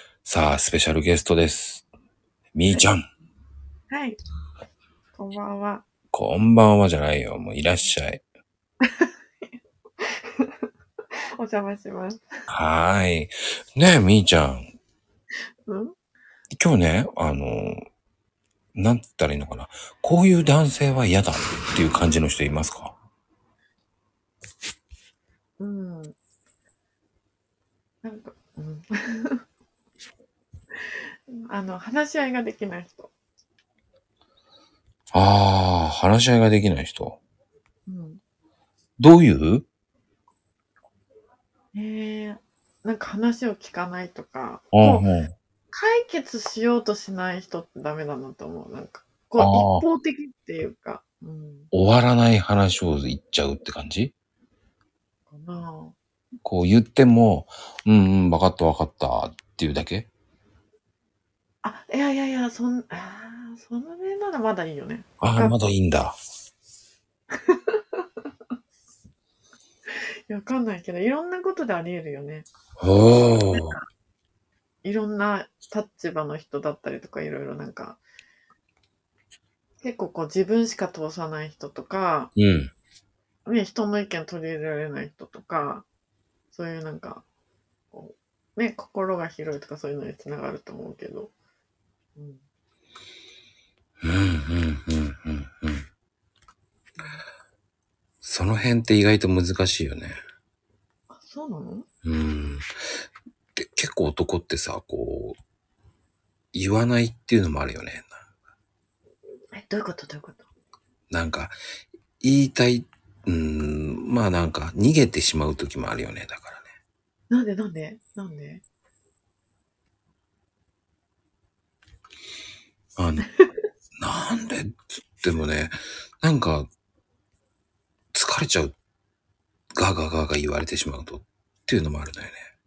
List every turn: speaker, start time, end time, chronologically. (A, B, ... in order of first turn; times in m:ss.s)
0:00.2-0:01.8 A
0:02.5-0:03.0 A
0:03.9-0:04.2 B
0:05.2-0:05.8 B
0:06.1-0:08.2 A
0:08.8-0:09.5 B
0:10.0-0:10.6 B
0:11.4-0:12.2 B
0:12.5-0:14.7 A
0:15.6-0:15.9 B
0:16.6-0:17.8 A
0:18.7-0:22.9 A
0:25.6-0:26.1 B
0:28.0-0:29.4 B
0:31.3-0:33.1 B
0:35.1-0:37.2 A
0:37.9-0:38.2 B
0:39.0-0:39.7 A
0:41.7-0:45.1 B
0:44.7-0:45.3 A
0:45.7-0:51.7 B
0:49.4-0:49.8 A
0:51.7-0:54.1 A
0:55.3-0:56.0 B
0:56.4-1:00.1 A
1:01.6-1:05.6 B
1:05.2-1:06.2 A
1:07.4-1:08.0 B
1:10.3-1:12.5 B
1:12.8-1:13.8 A
1:13.4-1:13.8 B
1:14.8-1:18.0 B
1:19.8-1:22.3 B
1:22.4-1:22.7 A
1:23.4-1:25.8 B
1:26.5-1:27.2 B
1:27.9-1:31.3 B
1:32.2-1:32.4 B
1:34.0-1:35.8 A
1:38.2-1:40.2 A
1:41.1-1:41.9 B
1:42.0-1:42.6 A
1:43.6-1:45.4 A
1:46.5-1:48.2 A
1:49.5-1:50.4 B
1:51.1-1:51.5 A
1:52.2-1:56.6 A
1:57.3-1:58.6 B
2:03.0-2:03.2 A
2:03.2-2:03.5 B
2:04.0-2:06.7 A
2:08.1-2:08.7 A
2:09.8-2:12.4 A